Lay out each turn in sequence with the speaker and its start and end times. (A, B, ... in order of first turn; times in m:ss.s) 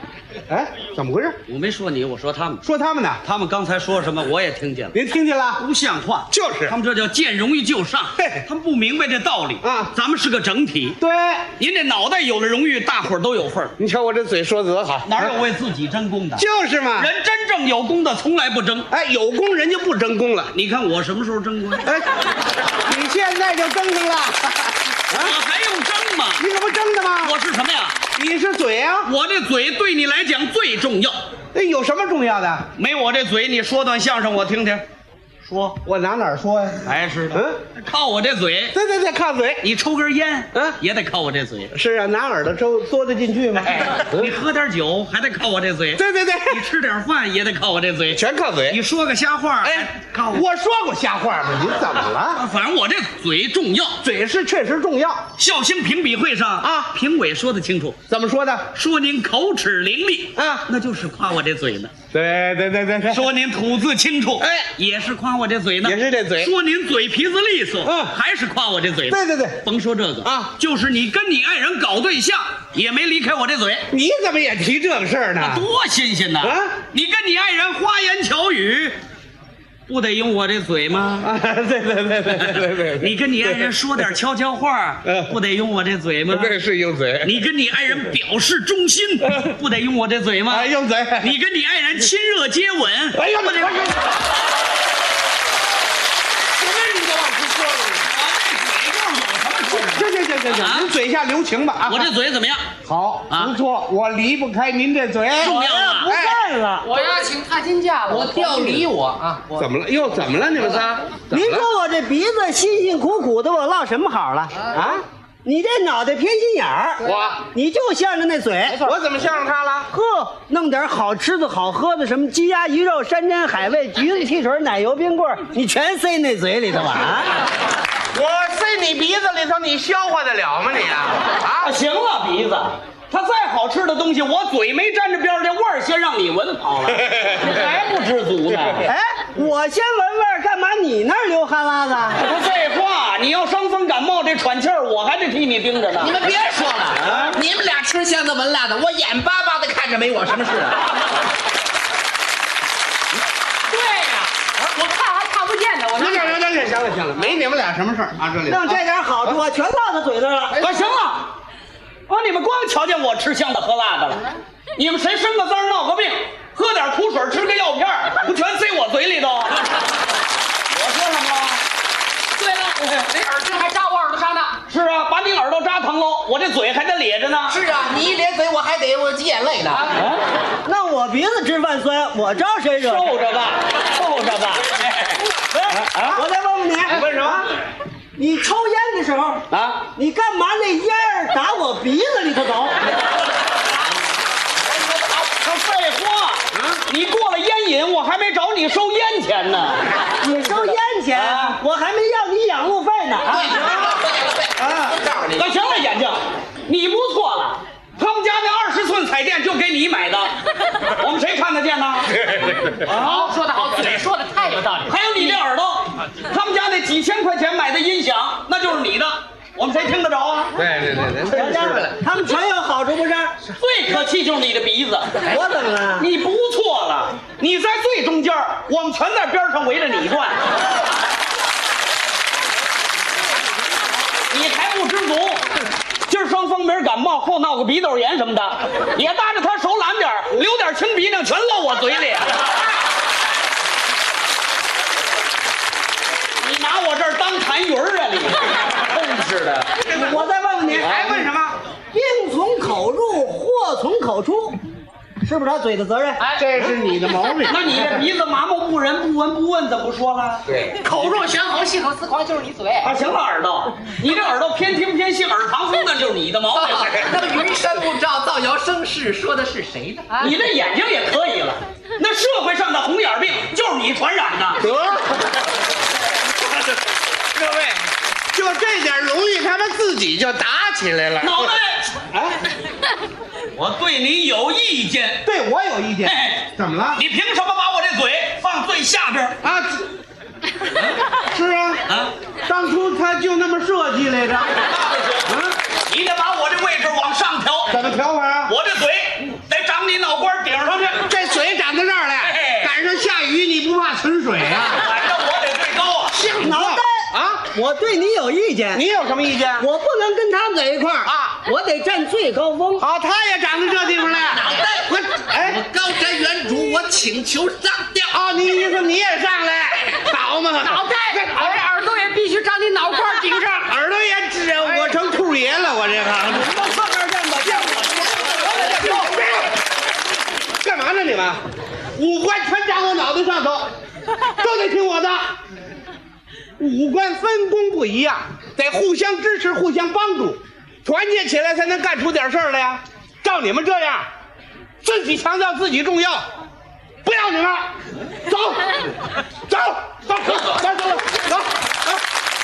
0:00.5-0:01.4 A
0:01.5-0:02.6 B
0:02.6-0:03.2 A
0:03.2-0:05.0 B
0:04.9-0:05.6 A
0:05.6-0:11.0 B
0:06.3-0:06.8 A
0:08.2-0:08.4 A
0:09.6-0:09.9 A
0:11.0-0:11.5 A
0:11.6-0:13.8 B
0:13.8-0:15.4 A
0:15.0-0:16.4 B
0:16.4-0:17.1 A
0:17.0-0:18.9 B
0:18.9-0:20.5 A
0:20.5-0:22.0 B
0:22.7-0:25.4 A
0:25.1-0:26.4 B
0:26.4-0:27.4 A
0:27.2-0:28.0 B
0:28.2-0:29.1 A
0:29.0-0:31.2 B
0:31.5-0:32.7 A
0:32.8-0:34.8 B
0:35.5-0:35.8 B
0:35.8-0:37.6 A
0:36.9-0:38.8 B
0:38.7-0:39.6 A
0:39.6-0:41.7 B
0:41.7-0:44.3 A
0:43.6-0:50.4 B
0:46.0-0:46.6 A
0:48.1-0:48.8 A
0:49.6-0:52.4 A
0:52.3-0:54.0 B
0:54.0-0:55.2 A
0:55.4-0:58.0 B
0:56.6-0:56.9 A
0:58.1-0:58.7 A
0:58.7-1:01.9 B
1:00.4-1:00.7 A
1:02.1-1:03.3 A
1:03.1-1:13.9 B
1:04.4-1:04.7 A
1:05.8-1:06.5 A
1:07.8-1:08.1 A
1:09.1-1:09.6 A
1:10.2-1:10.5 A
1:13.9-1:15.7 A
1:15.4-1:19.0 B
1:16.4-1:16.8 A
1:19.9-1:21.3 B
1:21.2-1:23.7 A
1:22.3-1:26.6 B
1:25.0-1:25.3 A
1:26.3-1:27.5 A
1:27.2-1:30.7 B
1:30.5-1:31.4 A
1:31.2-1:33.8 B
1:33.1-1:34.1 A
1:36.6-1:38.1 A
1:38.0-1:40.9 B
1:39.7-1:42.1 A
1:41.8-1:42.7 B
1:42.8-1:46.4 A
1:43.3-1:43.6 B
1:45.4-1:46.1 B
1:45.4-1:47.0 C
1:46.8-1:48.9 D
1:48.1-1:49.5 E
1:49.5-1:51.7 A
1:51.3-1:54.6 C
1:54.7-1:55.0 A
1:55.4-1:59.0 C
1:57.0-1:57.4 D
1:57.0-1:57.4 A
1:58.7-1:59.9 A
1:59.9-2:07.3 C
2:08.1-2:11.7 A
2:11.6-2:18.9 B
2:18.8-2:22.3 C
2:22.2-2:26.3 B
2:26.0-2:30.8 E
2:26.9-2:27.4 B
2:33.7-2:36.4 D
2:36.0-2:39.4 A
2:38.5-2:40.7 C
2:40.6-2:41.3 B
2:42.1-2:49.7 B
2:50.7-2:51.6 B
2:52.3-2:54.6 D
2:54.7-2:57.6 B
2:57.5-2:59.9 E
3:00.6-3:03.2 C
3:02.8-3:05.2 B
3:05.5-3:07.0 C
3:05.8-3:06.2 B
3:06.9-3:07.5 A
3:08.2-3:09.4 C
3:09.5-3:09.8 B
3:10.0-3:12.8 C
3:15.1-3:21.6 B
3:16.5-3:16.8 A
3:20.2-3:24.0 C
3:23.3-3:25.6 E
3:24.6-3:25.0 A
3:25.3-3:32.2 B
3:32.8-3:35.4 D
3:34.9-3:40.5 B
3:40.6-3:42.0 A
3:41.3-3:43.4 C
3:43.6-3:45.3 B
3:45.2-3:46.1 C
3:46.0-3:50.4 B
3:54.3-3:55.4 B
3:56.1-4:02.4 B
4:06.4-4:09.9 B
4:09.9-4:11.2 C
4:10.7-4:11.6 A
4:10.8-4:11.1 B
4:11.9-4:14.6 C
4:15.2-4:16.2 C
4:16.2-4:16.8 D
4:16.4-4:17.9 A
4:17.5-4:20.5 B
4:20.5-4:21.1 A
4:20.8-4:22.9 D
4:22.8-4:27.1 B
4:26.5-4:26.8 D
4:26.6-4:30.1 E
4:30.1-4:30.4 D
4:30.2-4:34.6 B
4:34.6-4:35.1 A
4:37.4-4:37.8 A
4:38.3-4:41.6 A
4:41.2-4:41.9 B
4:43.6-4:45.2 B
4:45.2-4:47.0 A
4:46.0-4:49.4 B
4:49.4-4:49.8 A
4:51.3-4:51.8 A
4:52.5-4:54.6 A
4:54.6-4:57.7 B
4:55.3-4:55.6 A
4:57.7-4:58.6 A
4:58.5-5:01.0 B
5:00.8-5:04.8 A
5:02.3-5:02.7 B
5:04.8-5:06.2 B
5:06.1-5:07.4 A
5:06.4-5:08.8 C
5:08.7-5:09.7 A
5:09.6-5:12.8 C
5:11.0-5:11.3 A
5:12.8-5:15.6 A
5:14.1-5:18.1 E
5:18.1-5:21.6 A
5:20.6-5:23.7 D
5:23.7-5:26.6 A
5:26.3-5:29.0 B
5:27.4-5:29.6 A
5:30.6-5:31.4 A
5:32.0-5:33.7 A
5:34.3-5:35.3 A
5:36.6-5:44.1 A
5:44.8-5:46.2 A
5:47.0-5:48.8 A
5:49.5-5:51.8 A
5:50.3-5:50.6 B